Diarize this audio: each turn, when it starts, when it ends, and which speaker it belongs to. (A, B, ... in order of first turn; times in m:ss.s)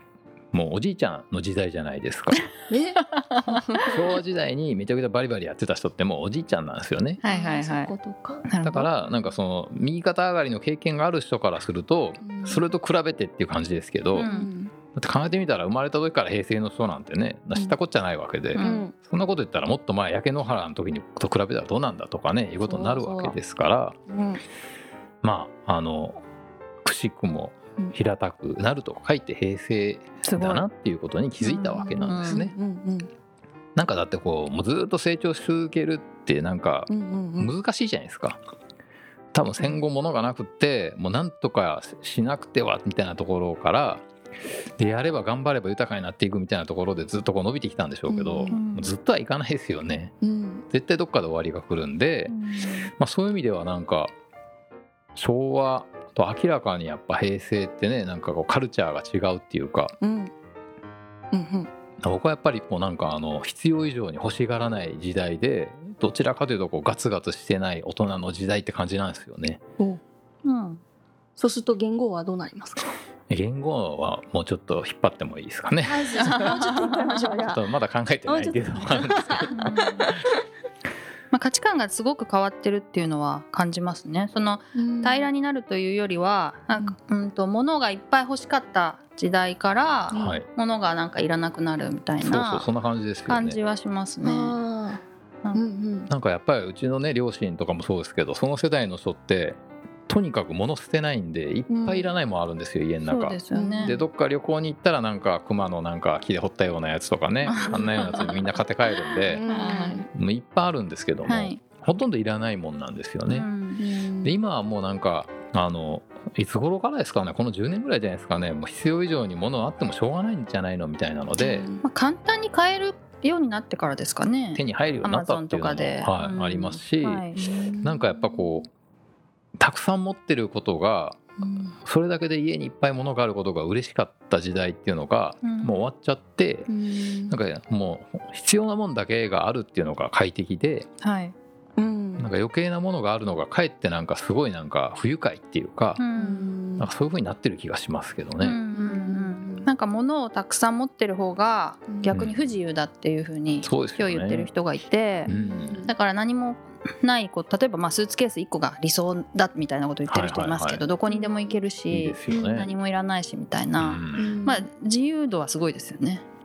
0:00.5-0:02.5 A
0:02.7-0:03.9 B
0:03.0-0:03.6 C
0:03.9-0:07.2 A
0:07.2-0:07.9 C
0:07.2-0:08.4 B
0:08.4-0:08.9 C
0:08.6-0:14.3 A
0:12.2-0:12.6 B
0:14.1-0:14.7 B
0:14.2-0:14.5 C
0:14.9-0:24.0 A
0:18.5-0:18.8 C
0:18.6-0:18.9 B
0:22.6-0:23.4 B
0:24.1-0:24.4 B
0:25.2-0:26.2 A
0:26.8-0:32.5 A
0:30.2-0:30.6 C
0:31.4-0:32.4 C
0:31.8-0:33.1 B
0:33.8-0:38.4 A
0:36.9-0:37.5 B
0:39.3-0:44.0 A
0:44.8-0:50.1 A
0:48.1-0:48.5 B
0:48.4-0:48.9 C
0:50.2-0:50.6 B
0:50.7-0:52.3 A
0:52.2-0:52.9 C
0:53.0-0:54.1 A
0:55.1-0:59.9 A
1:00.0-1:00.3 B
1:01.3-1:01.7 B
1:02.0-1:09.6 A
1:10.4-1:10.8 C
1:11.4-1:12.9 B
1:13.3-1:16.4 A
1:15.8-1:17.6 B
1:16.2-1:17.1 C
1:17.4-1:19.6 A
1:18.2-1:19.6 B
1:19.5-1:20.1 C
1:21.3-1:32.7 C
1:24.7-1:25.3 B
1:30.1-1:30.4 B
1:30.1-1:30.4 A
1:32.2-1:33.6 A
1:33.2-1:34.6 C
1:34.2-1:35.0 B
1:35.5-1:36.1 B
1:36.1-1:49.4 A
1:41.7-1:42.1 B
1:43.0-1:43.9 C
1:43.5-1:44.0 B
1:47.4-1:48.4 C
1:47.7-1:48.4 B
1:49.3-1:50.1 B
1:49.5-1:50.0 C
1:50.1-1:53.5 A
1:51.2-1:51.6 C
1:53.3-1:53.8 C
1:53.8-1:54.4 B
1:54.2-2:01.7 A
2:01.4-2:01.8 B
2:01.8-2:07.4 C
2:04.5-2:07.2 A
2:07.3-2:08.6 B
2:07.8-2:08.7 A
2:09.6-2:16.7 A
2:11.4-2:11.7 B
2:15.4-2:15.8 C
2:16.7-2:17.4 B
2:17.3-2:20.9 A
2:21.0-2:21.3 C
2:21.8-2:22.3 B
2:22.2-2:26.0 A
2:26.0-2:26.5 C
2:26.1-2:26.9 B
2:26.8-2:28.6 A
2:28.4-2:35.3 C
2:28.7-2:29.7 B
2:31.9-2:32.2 B
2:32.1-2:32.3 A
2:33.6-2:34.5 A
2:35.3-2:35.9 B
2:35.3-2:35.8 A
2:35.8-2:46.2 C
2:40.1-2:40.8 A
2:41.1-2:41.4 B
2:41.9-2:42.7 A
2:42.3-2:42.7 B
2:43.8-2:44.3 A
2:44.2-2:44.6 B